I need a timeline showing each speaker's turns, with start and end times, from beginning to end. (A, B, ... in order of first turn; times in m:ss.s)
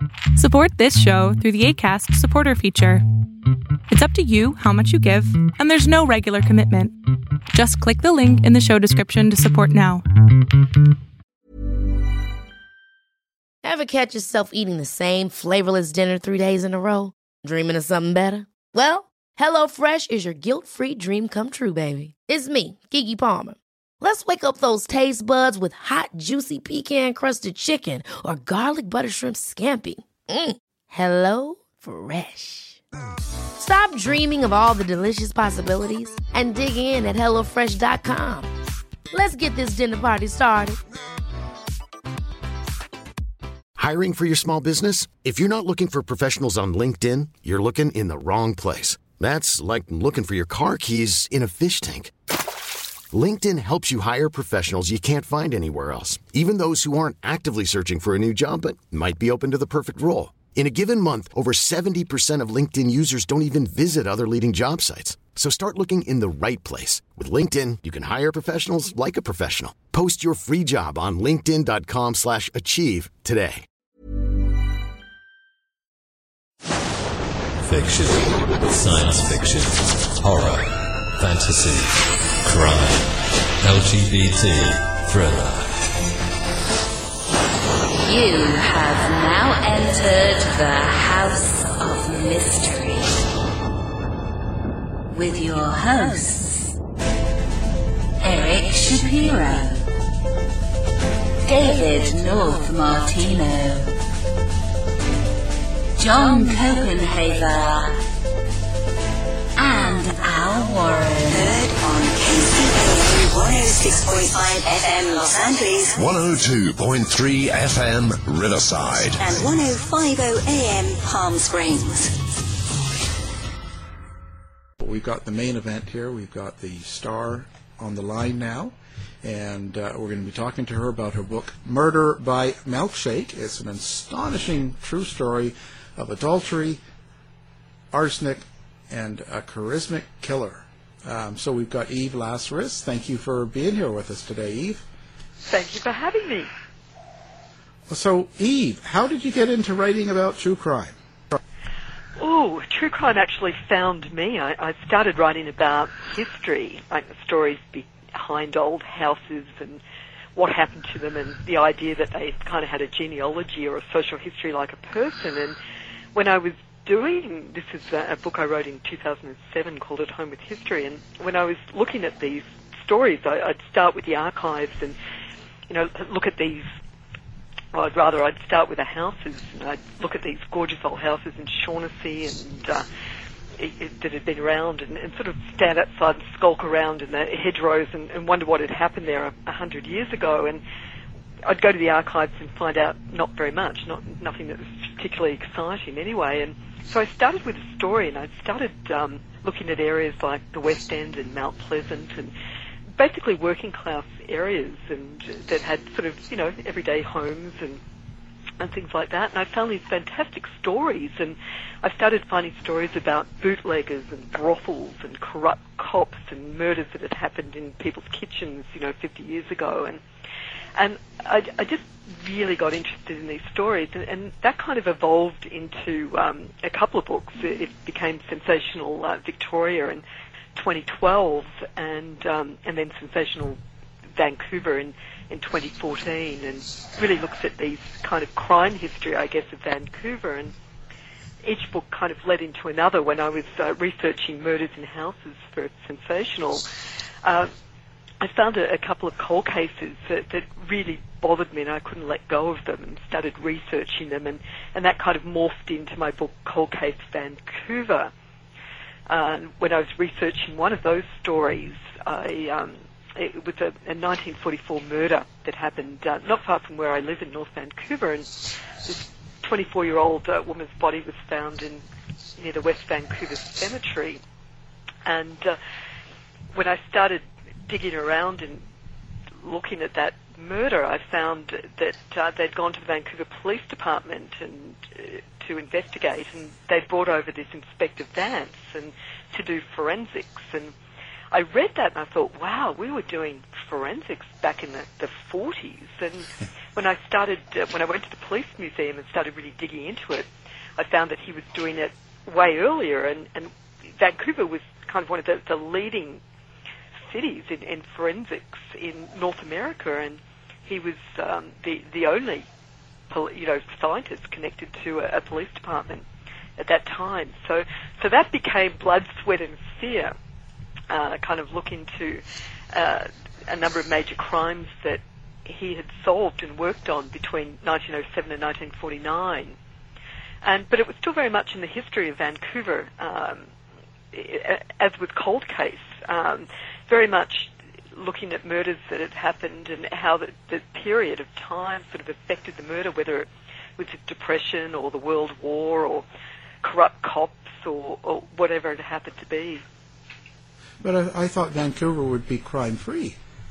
0:00.3-0:03.0 A
0:03.9-0:07.0 A
0:07.5-0:10.0 A
0:13.6-0:32.8 B
0:33.6-0:38.5 B
0:39.1-0:40.8 B
0:43.8-0:52.1 C
0:53.1-1:13.6 C
1:17.6-1:25.7 D
1:28.0-1:33.1 E
1:35.1-1:36.7 E
1:38.2-1:39.8 E
1:41.4-1:43.9 E
1:46.0-1:48.0 E
1:49.6-1:51.8 E
1:51.6-1:52.3 F
1:52.4-1:53.7 E
1:52.8-1:55.9 F
1:55.9-1:59.2 G
1:59.2-2:02.1 F
2:04.8-2:16.8 H
2:17.9-2:24.8 H
2:25.5-2:26.5 I
2:27.9-2:31.0 H
2:32.2-2:39.8 I
2:40.4-2:45.6 I
2:46.1-2:55.0 I
2:55.7-2:56.7 I
2:57.7-3:02.8 I
3:03.6-3:10.6 I
3:11.4-3:22.3 I
3:23.0-3:27.8 I
3:28.6-3:40.0 I
3:40.8-3:50.0 I
3:50.5-3:53.6 I
3:54.2-4:00.5 I
4:01.4-4:06.6 I
4:07.2-4:07.5 I
4:08.2-4:18.1 I
4:19.1-4:31.8 I
4:32.4-4:34.2 I
4:35.0-4:35.6 I
4:36.5-4:38.6 I
4:39.4-4:50.7 I
4:51.3-5:06.2 I
5:07.1-5:12.4 I
5:13.1-5:16.0 I
5:16.6-5:20.1 I
5:20.9-5:22.2 I
5:22.7-5:29.6 I
5:30.4-5:33.5 I
5:34.1-5:46.0 I
5:46.6-5:49.6 I
5:50.8-5:53.2 H